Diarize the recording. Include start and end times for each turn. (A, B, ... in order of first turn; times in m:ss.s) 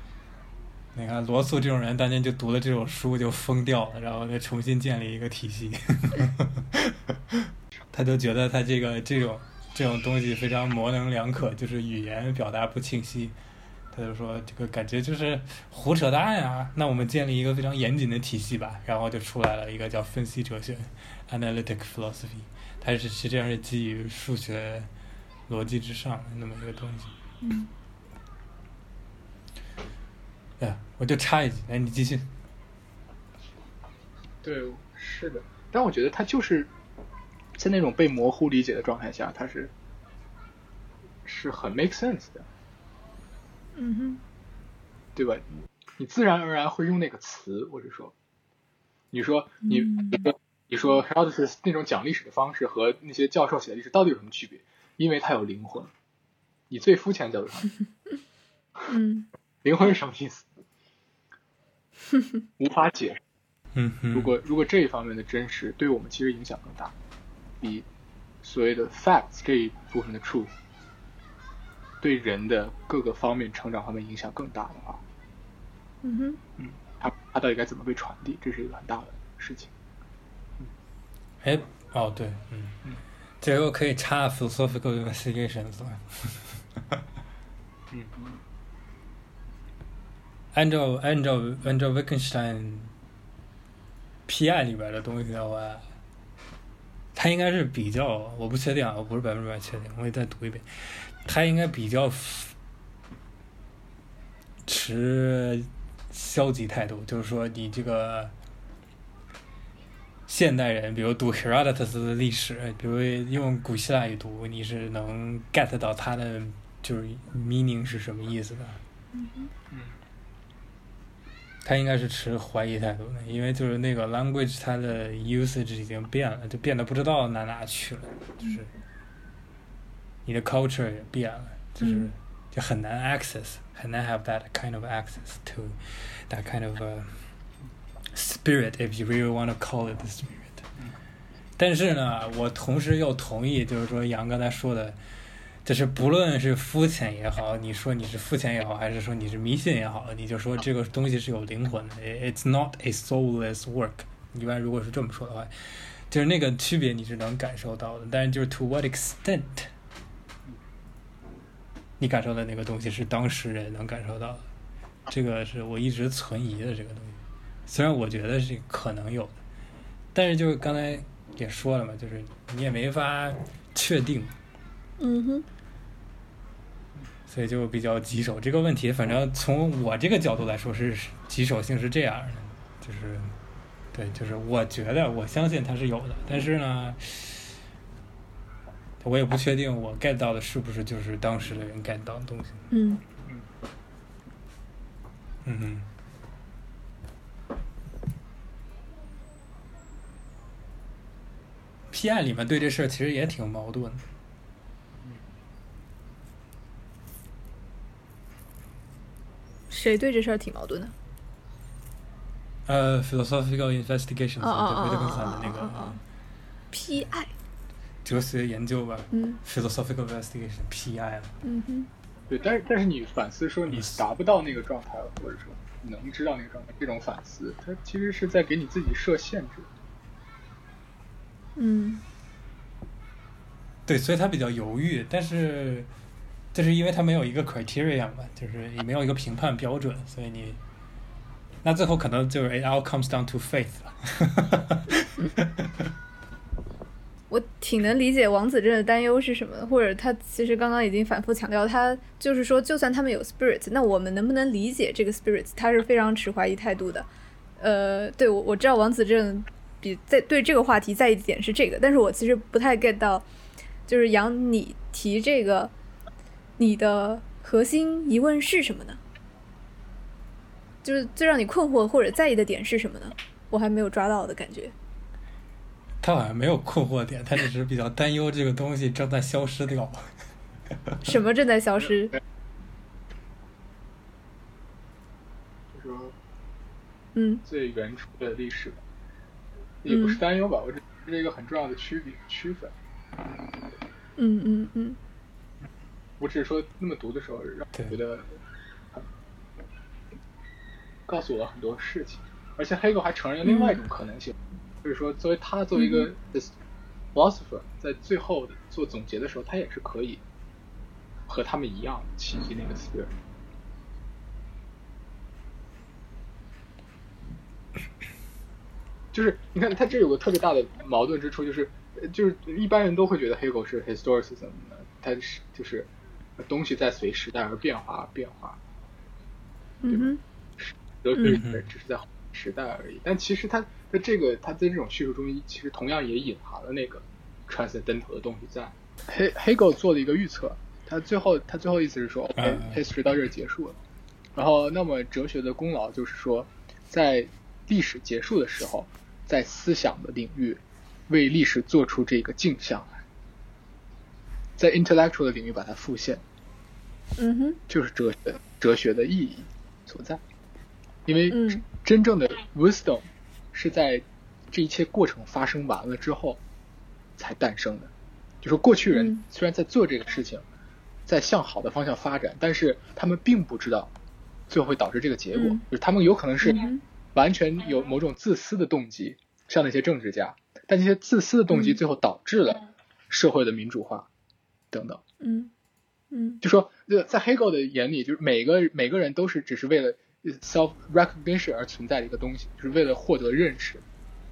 0:00.9-0:13.4 A
0:13.9-0:24.9 A
0:25.5-0:27.1 A
0:27.4-0:27.7 B
0:30.6-0:32.3 A
0:34.4-0:36.7 C
0:37.6-0:39.7 C
0:41.3-0:42.5 C
0:43.8-0:44.2 B
0:45.2-0:45.5 C
0:46.0-0:48.1 C
0:49.1-0:55.9 C
0:49.7-0:50.2 B
0:56.7-0:57.7 C
0:58.9-0:59.3 B
0:59.6-1:00.5 C
1:02.6-1:03.2 C
1:03.7-1:04.3 A
1:04.1-1:06.9 C
1:07.6-1:07.9 C
1:08.4-1:10.5 C
1:12.0-1:15.0 C
1:16.0-1:16.4 B
1:16.6-1:19.7 C
1:21.4-1:22.8 A
1:23.4-1:27.0 A
1:27.9-1:28.4 C
1:30.5-1:32.9 A
1:34.3-1:35.9 A
1:37.2-1:42.6 A
1:44.6-1:48.3 A
1:50.3-1:58.8 A
1:59.1-1:59.5 B
2:01.6-2:08.7 A
2:10.2-2:17.2 A
2:11.8-2:12.1 B
2:18.1-2:20.6 A
2:21.6-2:25.0 A
2:25.6-2:39.7 A
2:42.0-2:44.4 A
2:45.1-2:49.4 A
2:50.1-2:54.4 A
2:55.0-2:55.5 B
2:57.3-3:03.3 A
3:03.9-3:07.5 A
3:09.0-3:12.6 A
3:12.7-3:13.0 B
3:15.4-3:15.9 A
3:21.9-3:24.0 A
3:29.7-3:30.9 B
3:32.7-3:36.0 A
3:34.4-3:36.0 B
3:36.7-3:37.3 B
3:38.0-3:41.3 A
3:39.1-3:39.4 B
3:41.4-3:41.9 B
3:42.3-3:49.7 C
3:43.7-3:44.0 A
3:51.6-3:52.0 B
3:53.9-3:55.9 A
3:56.5-4:00.6 A
4:01.6-4:05.9 A
4:07.3-4:17.1 B
4:17.6-4:23.3 B
4:23.9-4:25.7 B
4:26.6-4:29.0 B
4:30.8-4:34.7 B
4:36.0-4:40.0 A
4:41.0-4:42.2 B
4:45.7-4:46.2 C
4:47.2-4:47.4 B
4:47.4-4:48.8 C
4:49.8-4:52.7 C
4:49.9-4:50.2 B
4:54.2-4:55.0 B
4:56.2-4:58.4 C
5:01.1-5:06.5 C
5:03.4-5:03.8 B
5:05.8-5:06.1 B
5:07.2-5:10.2 C
5:11.3-5:13.1 C
5:19.1-5:28.6 C
5:29.8-5:30.2 B
5:29.9-5:43.8 C
5:31.2-5:31.6 A
5:42.4-5:42.8 A
5:44.4-5:53.0 C
5:54.6-5:56.2 C
5:57.2-5:57.6 B
5:57.7-6:00.2 C
6:01.1-6:06.4 C
6:01.3-6:01.6 B
6:07.2-6:10.4 C
6:08.9-6:09.2 B
6:11.1-6:13.9 C
6:14.5-6:24.1 C
6:15.3-6:15.6 B
6:16.5-6:16.8 B
6:21.5-6:21.8 B
6:24.7-6:25.0 C
6:25.2-6:25.5 B
6:26.1-6:26.4 B
6:26.4-6:33.8 C